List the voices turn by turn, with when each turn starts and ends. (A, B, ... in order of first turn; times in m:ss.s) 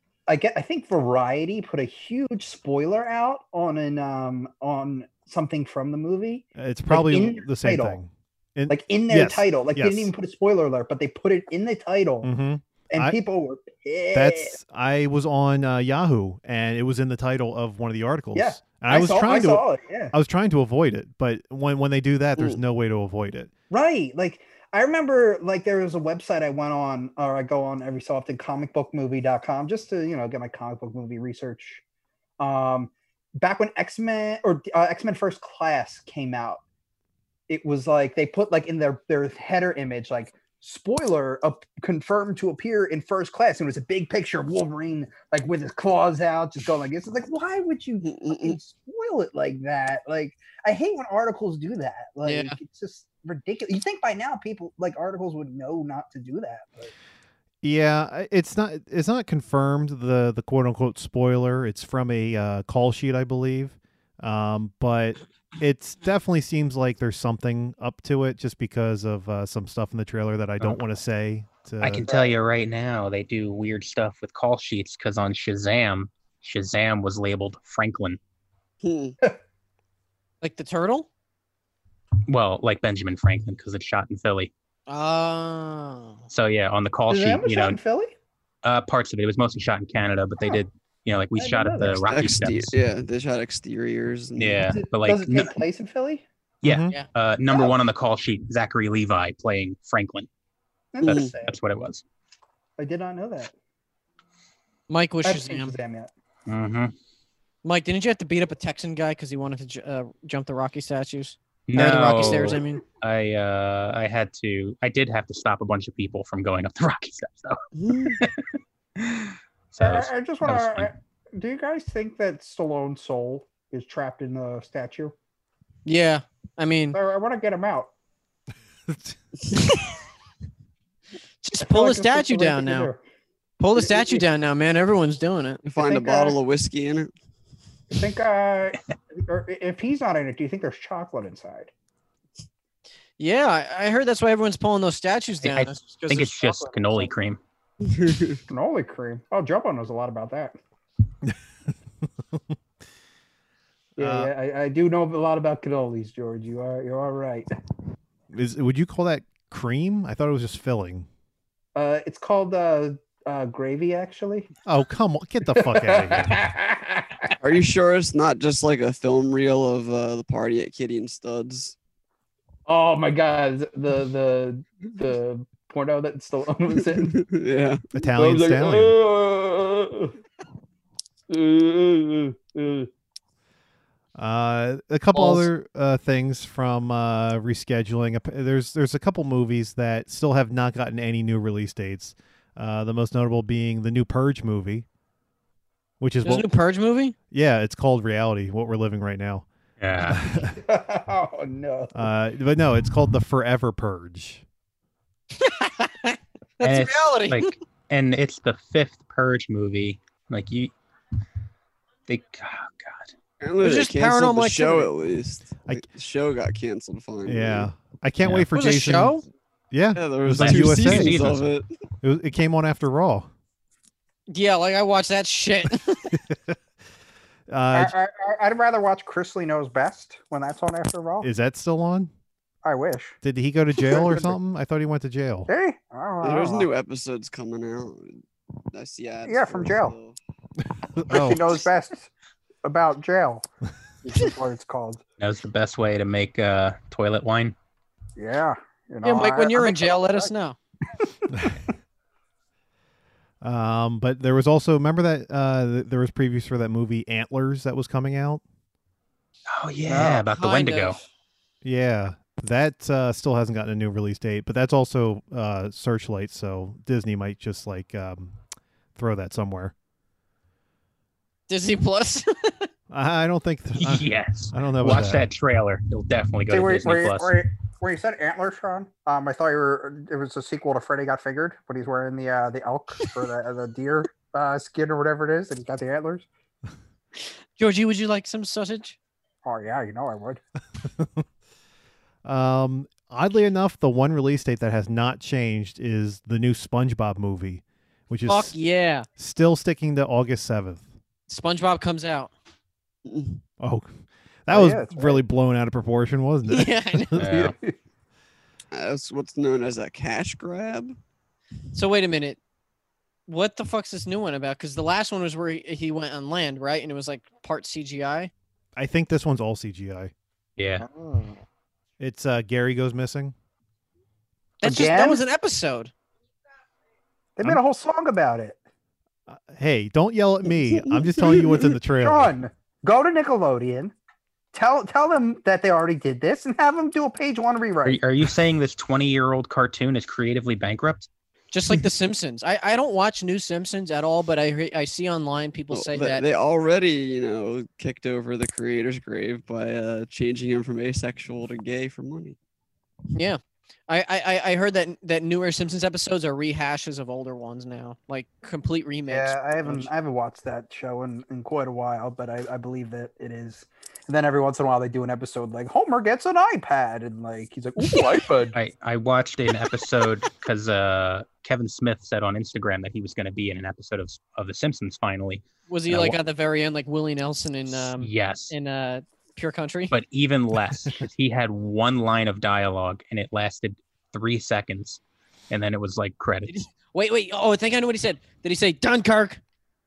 0:00.3-0:08.0 A
0:06.6-0:10.1 B
0:08.7-0:12.3 A
0:12.2-0:13.2 B
0:12.9-0:14.5 A
0:14.1-0:23.5 B
0:18.3-0:20.1 A
0:23.7-0:31.8 A
0:32.4-0:36.6 A
0:37.5-0:56.9 A
0:48.0-0:48.6 C
0:52.2-0:52.6 D
0:57.6-1:12.1 B
1:11.8-1:18.2 E
1:12.1-1:12.3 A
1:18.8-1:19.2 C
1:20.4-1:21.1 D
1:22.3-1:24.5 E
1:24.9-1:26.2 D
1:26.3-1:27.8 E
1:27.1-1:28.1 A
1:28.6-1:32.7 E
1:31.3-1:32.0 A
1:32.0-1:34.6 C
1:34.4-1:35.6 E
1:34.7-1:36.2 A
1:36.6-1:40.3 E
1:36.6-1:36.9 B
1:37.5-1:37.8 A
1:40.9-1:41.6 A
1:41.0-1:42.0 E
1:41.0-1:41.3 C
1:42.8-1:43.5 A
1:44.9-1:45.8 D
1:45.2-1:46.1 A
1:46.5-1:46.9 E
1:47.6-1:52.8 D
1:51.7-1:58.4 E
1:52.2-1:52.5 C
1:57.7-1:58.2 C
1:59.0-2:00.9 E
1:59.8-2:05.1 A
2:05.8-2:07.0 D
2:06.9-2:07.9 A
2:08.9-2:09.2 B
2:11.4-2:12.9 D
2:11.6-2:13.0 A
2:13.6-2:15.6 D
2:13.9-2:14.2 A
2:15.6-2:17.1 C
2:15.8-2:16.4 A
2:17.9-2:21.7 A
2:23.2-2:27.1 D
2:25.4-2:27.4 E
2:27.8-2:28.4 C
2:28.5-2:30.6 A
2:34.0-2:37.5 A
2:34.0-2:34.3 B
2:38.3-2:41.1 B
2:41.7-2:44.5 A
2:44.6-2:46.4 B
2:45.5-2:47.3 A
2:47.4-2:51.8 C
2:52.7-2:57.2 A
2:56.9-2:57.9 C
2:57.9-2:59.0 B
2:58.1-3:00.1 A
3:01.3-3:02.9 A
3:04.2-3:14.8 B
3:16.0-3:16.5 B
3:16.2-3:17.1 D
3:17.3-3:19.4 B
3:19.8-3:20.2 E
3:20.0-3:20.6 B
3:20.6-3:22.1 A
3:21.9-3:24.4 B
3:25.4-3:27.5 D
3:26.6-3:30.7 E
3:32.1-3:33.1 E
3:33.4-3:37.7 C
3:33.6-3:34.9 D
3:37.2-3:39.2 B
3:38.2-3:38.5 E
3:38.5-3:39.2 D
3:39.7-3:41.2 B
3:39.9-3:41.7 C
3:40.3-3:41.5 E
3:42.0-3:43.3 B
3:44.3-3:46.2 D
3:46.1-3:46.6 B
3:47.5-3:47.9 B
3:47.7-3:51.3 A
3:51.2-3:52.1 B
3:52.6-3:53.2 A
3:53.2-3:55.5 B
3:53.8-3:54.4 A
3:55.5-3:56.7 A
3:56.2-4:00.2 C
3:59.2-3:59.9 A
4:01.0-4:01.5 B
4:01.1-4:02.1 A
4:02.6-4:03.4 A
4:04.0-4:05.0 A
4:05.2-4:07.5 E
4:08.2-4:10.3 A
4:09.0-4:10.6 D
4:11.0-4:11.5 A
4:13.4-4:18.4 B
4:19.5-4:21.0 E
4:19.8-4:20.2 A
4:20.0-4:21.0 D
4:21.6-4:28.4 B
4:29.0-4:29.7 B
4:31.5-4:32.7 D
4:32.9-4:35.3 B
4:33.8-4:37.4 E
4:36.5-4:46.3 A
4:47.2-4:49.0 D
4:49.4-4:50.4 A
4:50.8-4:51.2 B
4:52.2-4:58.6 B
4:58.2-4:59.1 D
4:59.2-5:00.8 B
5:01.3-5:02.3 D
5:03.0-5:03.4 C
5:03.6-5:03.9 B
5:04.4-5:07.3 B
5:04.5-5:05.2 A
5:06.5-5:07.2 D
5:07.2-5:07.5 E
5:07.2-5:07.7 A
5:08.7-5:11.0 C
5:11.7-5:12.4 D
5:13.3-5:18.3 D
5:18.8-5:20.1 B
5:20.6-5:20.9 E
5:20.8-5:21.4 D
5:22.0-5:23.3 B
5:24.6-5:25.9 D
5:24.6-5:25.2 A
5:27.4-5:28.6 A
5:29.3-5:32.3 B
5:30.5-5:31.7 C
5:32.0-5:33.9 A
5:34.5-5:38.0 A
5:37.8-5:41.1 E
5:41.5-5:46.2 D
5:45.7-5:52.4 C
5:53.1-5:59.9 D
5:59.1-6:08.6 A
6:08.5-6:16.2 E
6:15.7-6:19.9 D
6:17.8-6:18.5 E
6:19.9-6:26.5 E
6:26.5-6:29.4 D